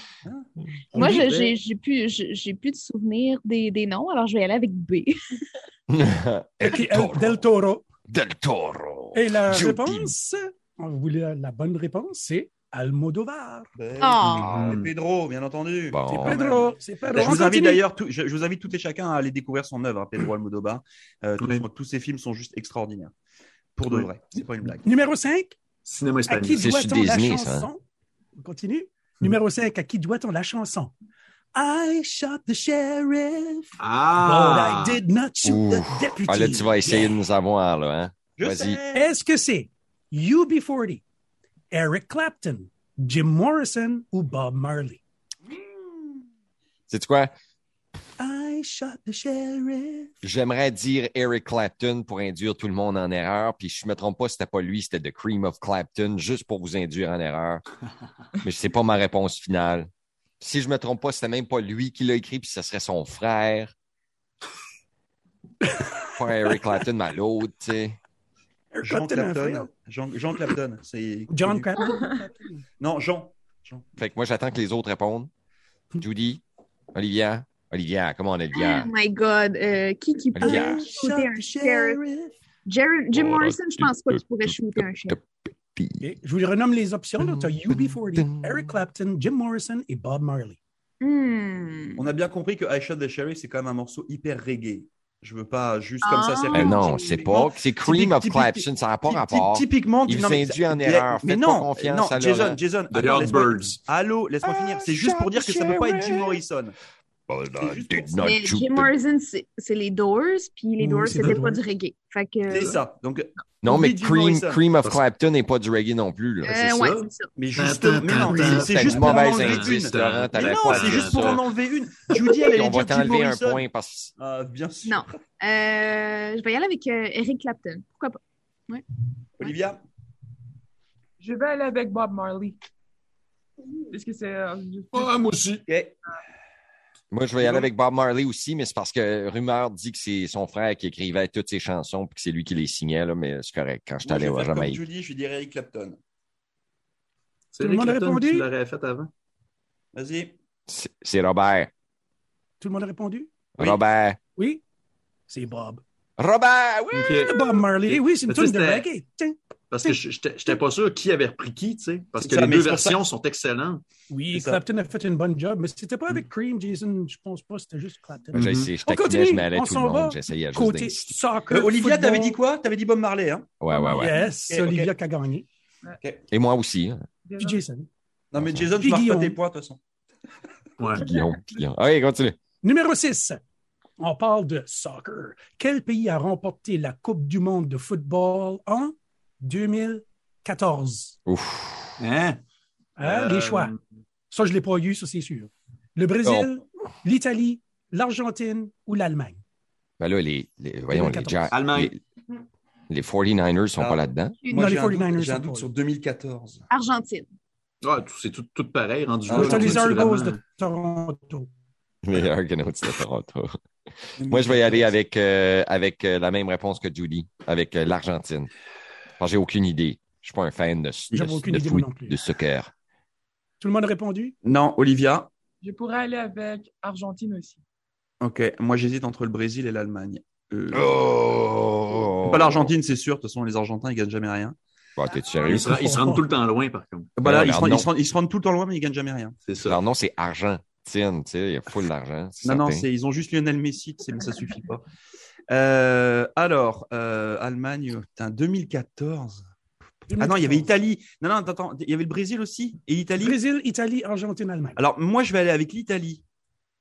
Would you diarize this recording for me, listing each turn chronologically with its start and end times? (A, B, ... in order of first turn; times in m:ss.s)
0:00.2-0:01.4 A
0:00.9-0:01.6 B
0:01.0-0:05.1 C
0:05.9-0:07.4 D
0:06.6-0:07.9 E
0:08.1-0:10.1 D
0:09.1-0:13.7 E
0:13.8-0:23.1 A
0:14.0-0:14.5 C
0:14.3-0:14.8 D
0:14.5-0:14.9 B
0:15.9-0:16.4 D
0:16.1-0:17.8 E
0:21.4-0:21.7 B
0:23.8-0:24.8 A
0:24.8-0:25.6 E
0:25.8-0:26.7 B
0:26.3-0:27.8 E
0:26.5-0:27.7 D
0:28.4-0:30.9 E
0:31.6-0:37.2 E
0:33.8-0:35.0 B
0:35.4-0:38.8 D
0:38.4-0:39.1 A
0:38.9-0:41.0 E
0:41.7-0:45.0 E
0:45.6-0:46.2 A
0:46.9-0:47.3 D
0:48.2-0:50.1 E
0:50.2-0:57.6 D
0:58.4-1:03.7 D
1:06.2-1:08.0 D
1:08.7-1:09.7 E
1:08.8-1:11.9 A
1:11.3-1:12.6 E
1:12.8-1:14.0 A
1:14.0-1:15.3 D
1:16.0-1:16.4 D
1:16.9-1:18.9 D
1:18.5-1:22.0 C
1:20.4-1:20.9 D
1:20.4-1:22.3 E
1:20.9-1:21.8 A
1:22.7-1:25.2 C
1:23.1-1:26.0 D
1:26.0-1:30.6 E
1:27.2-1:28.7 D
1:31.0-1:32.1 C
1:32.0-1:46.8 A
1:36.0-1:37.0 C
1:36.5-1:42.6 D
1:42.9-1:43.8 B
1:44.4-1:46.4 D
1:47.3-1:49.0 D
1:47.6-1:48.3 A
1:48.2-1:52.8 C
1:50.8-1:51.6 E
1:51.2-1:51.5 B
1:52.5-1:54.6 A
1:53.6-1:56.6 D
1:56.4-1:57.3 C
1:56.4-2:01.4 B
1:57.4-2:03.7 A
1:58.6-2:01.4 D
2:02.5-2:04.1 D
2:04.2-2:05.1 A
2:04.8-2:08.8 C
2:09.4-2:09.8 A
2:11.2-2:12.6 F
2:13.9-2:15.2 F
2:14.9-2:15.6 B
2:15.7-2:16.0 A
2:17.1-2:24.8 D
2:17.4-2:17.7 A
2:24.0-2:26.0 A
2:27.5-2:29.1 B
2:27.6-2:28.5 E
2:29.9-2:30.4 A
2:30.7-2:31.7 D
2:32.6-2:33.3 E
2:33.6-2:34.2 D
2:34.4-2:34.6 E
2:35.3-2:35.8 E
2:36.2-2:37.3 D
2:36.9-2:38.9 B
2:37.2-2:40.0 E
2:39.7-2:43.8 B
2:42.2-2:43.1 A
2:44.1-2:52.4 E
2:44.3-2:44.6 A
2:48.3-2:48.8 B
2:48.3-2:51.1 D
2:51.5-2:53.5 A
2:53.6-2:54.2 D
2:53.7-2:54.3 F
2:53.9-2:55.5 E
2:54.5-2:54.9 A
2:56.3-2:57.0 D
2:57.2-2:57.6 F
2:57.4-2:57.9 E
2:58.3-2:59.8 A
2:58.4-2:58.7 D
2:58.8-2:59.4 E
3:00.8-3:01.1 B
3:01.0-3:02.4 D
3:02.6-3:03.4 E
3:04.0-3:11.2 E
3:11.3-3:12.0 D
3:12.0-3:12.4 B
3:13.0-3:13.7 E
3:13.0-3:13.8 B
3:14.3-3:19.4 E
3:16.2-3:16.5 D
3:20.0-3:22.0 D
3:20.9-3:21.5 E
3:21.5-3:21.9 B
3:22.9-3:24.4 D
3:23.8-3:26.6 A
3:24.5-3:25.7 E
3:26.7-3:27.3 C
3:27.8-3:30.4 B
3:29.3-3:30.2 A
3:29.3-3:31.5 E
3:32.0-3:33.5 D
3:34.2-3:35.0 A
3:34.3-3:38.5 D
3:39.2-3:42.7 D
3:41.1-3:42.2 E
3:43.6-3:44.4 E
3:44.4-3:45.3 A
3:45.6-3:47.6 F
3:48.2-3:50.9 A
3:50.7-3:52.7 D
3:52.3-3:54.6 A
3:55.0-3:55.7 D
3:55.4-3:57.1 B
3:55.5-3:56.2 E
3:57.2-3:59.4 A
3:57.2-3:57.9 D
3:59.4-3:59.8 B
3:59.6-4:02.9 D
4:02.4-4:04.8 A
4:05.5-4:09.5 A
4:10.1-4:10.7 E
4:10.2-4:13.4 A
4:13.2-4:14.8 E
4:14.8-4:16.2 A